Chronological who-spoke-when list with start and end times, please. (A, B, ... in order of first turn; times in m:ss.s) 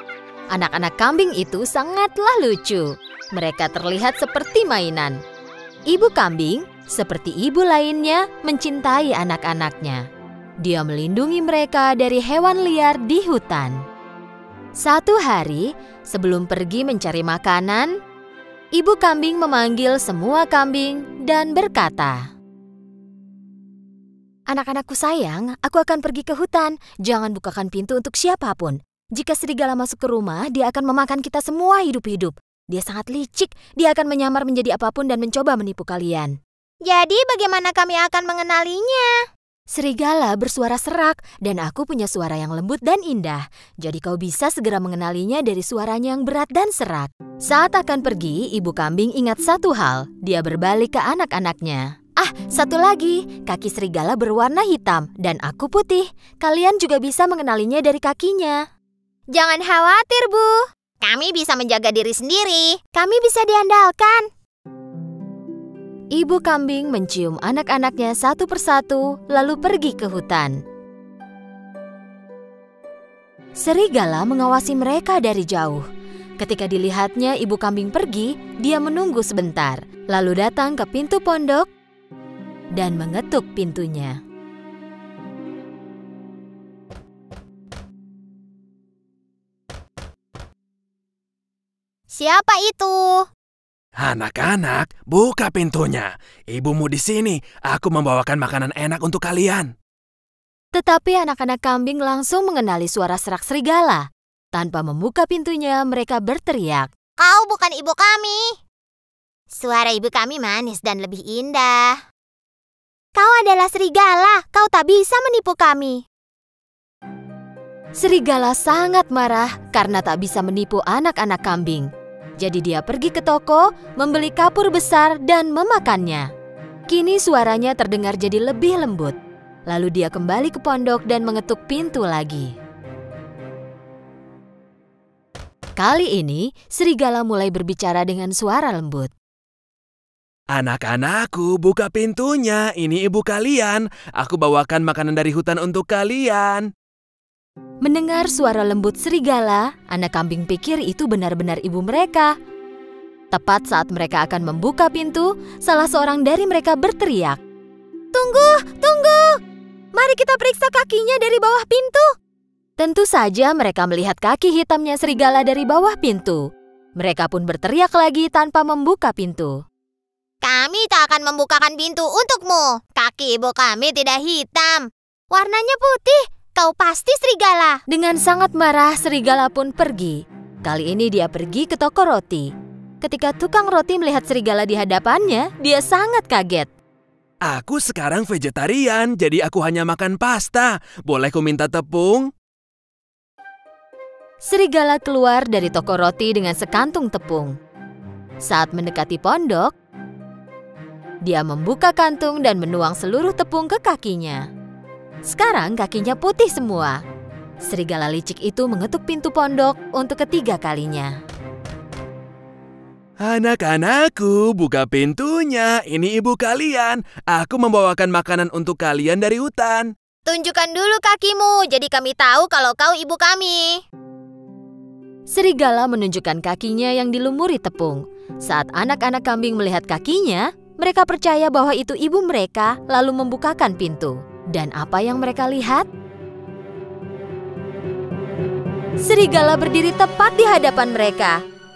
0:00.5-0:05.2 A
0:05.9-0:10.0 A
0:10.6-0:13.8 A
0:14.8-0:18.0 A
0:18.8-0:22.3 A
0:24.5-0:36.4 A
0:36.8-0:39.2 B
0:39.7-0:58.7 A
0:59.3-1:04.3 B
1:06.1-1:10.6 A
1:13.6-1:15.8 A
1:16.4-1:21.7 A
1:22.8-1:24.2 A
1:32.1-1:33.3 B
1:34.0-1:39.7 C
1:40.7-1:46.9 A
1:47.2-1:48.6 B
1:49.5-1:52.0 B
1:53.2-1:56.0 B
1:58.0-2:06.3 A
2:06.9-2:09.2 A
2:09.7-2:12.5 A
2:15.8-2:19.1 A
2:20.5-2:26.7 C
2:27.8-2:32.3 A
2:33.3-2:37.4 A
2:38.2-2:39.4 B
2:40.0-2:42.0 A
2:40.9-2:42.0 B
2:42.8-2:49.6 A
2:50.4-2:57.8 B
2:57.9-3:06.7 A
3:07.5-3:12.3 C
3:14.4-3:17.6 A
3:18.4-3:19.7 A
3:21.2-3:24.5 A
3:25.3-3:27.0 A
3:27.6-3:31.2 A
3:33.2-3:39.9 C
3:40.3-3:43.8 B
3:45.3-3:55.9 A
3:59.0-4:01.4 A